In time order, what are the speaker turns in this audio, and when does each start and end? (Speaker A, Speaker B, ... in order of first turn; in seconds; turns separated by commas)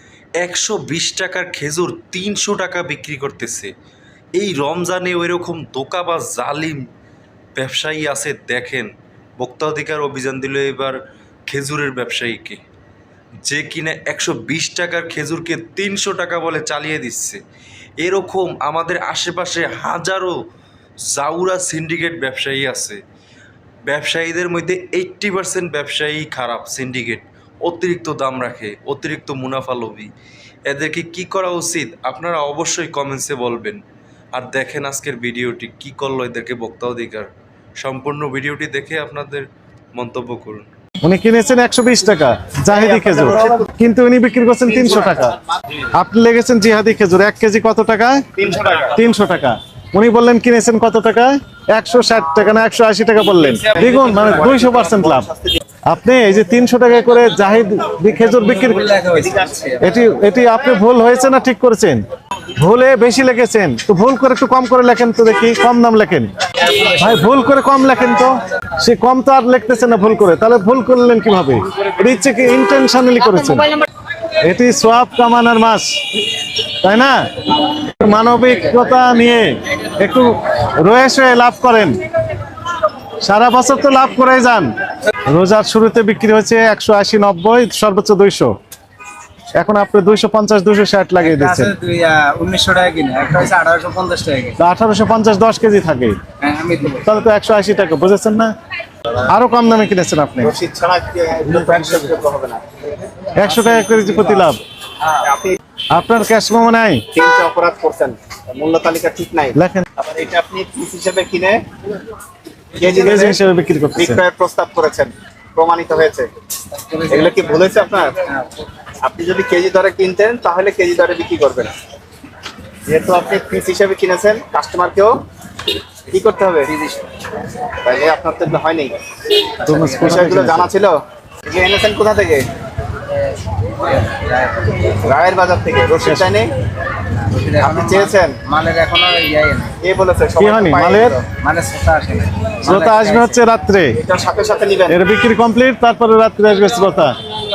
Speaker A: 0.4-3.7, Speaker A: 4.4-6.8, Speaker A: 7.6-11.0, Speaker A: 11.5-12.6, Speaker A: 13.4-17.4, Speaker A: 18.0-20.4, Speaker A: 21.1-23.0, Speaker A: 23.9-30.1, Speaker A: 30.7-33.8, Speaker A: 34.3-37.3, Speaker A: 37.8-40.7, Speaker B: 41.0-45.4, Speaker C: 42.8-43.6, Speaker B: 46.0-48.3, Speaker C: 48.4-49.0, Speaker B: 49.0-55.3, Speaker C: 53.5-55.6, Speaker B: 55.9-58.9, Speaker D: 58.4-59.8, Speaker C: 59.2-59.5, Speaker B: 59.8-62.0, Speaker B: 62.6-66.3, Speaker B: 67.0-73.7, Speaker B: 74.4-76.0, Speaker B: 76.8-77.3, Speaker B: 77.9-82.0, Speaker B: 83.2-84.7, Speaker B: 85.3-88.5, Speaker B: 89.6-91.7, Speaker D: 91.2-94.6, Speaker B: 94.6-96.2, Speaker D: 96.4-97.1, Speaker B: 97.1-98.5, Speaker B: 99.2-100.5, Speaker C: 100.4-102.6, Speaker B: 103.4-104.6, Speaker C: 105.2-105.6, Speaker B: 105.9-107.1, Speaker C: 107.1-111.6, Speaker B: 109.5-109.9, Speaker C: 112.8-113.4, Speaker B: 113.0-114.2, Speaker C: 114.0-116.3, Speaker D: 116.7-118.3, Speaker C: 117.1-118.1, Speaker C: 119.0-121.7, Speaker C: 122.9-125.2, Speaker C: 126.1-126.7, Speaker D: 126.7-127.1, Speaker C: 127.8-129.0, Speaker D: 129.7-130.3, Speaker B: 129.7-130.7, Speaker C: 130.0-132.5, Speaker D: 133.8-134.7, Speaker C: 135.0-136.5, Speaker B: 136.0-136.3, Speaker D: 137.2-139.7, Speaker C: 137.6-138.3, Speaker C: 139.8-141.2, Speaker B: 140.4-141.2, Speaker D: 141.3-143.4, Speaker B: 142.6-144.0, Speaker C: 144.0-145.0, Speaker B: 144.9-147.1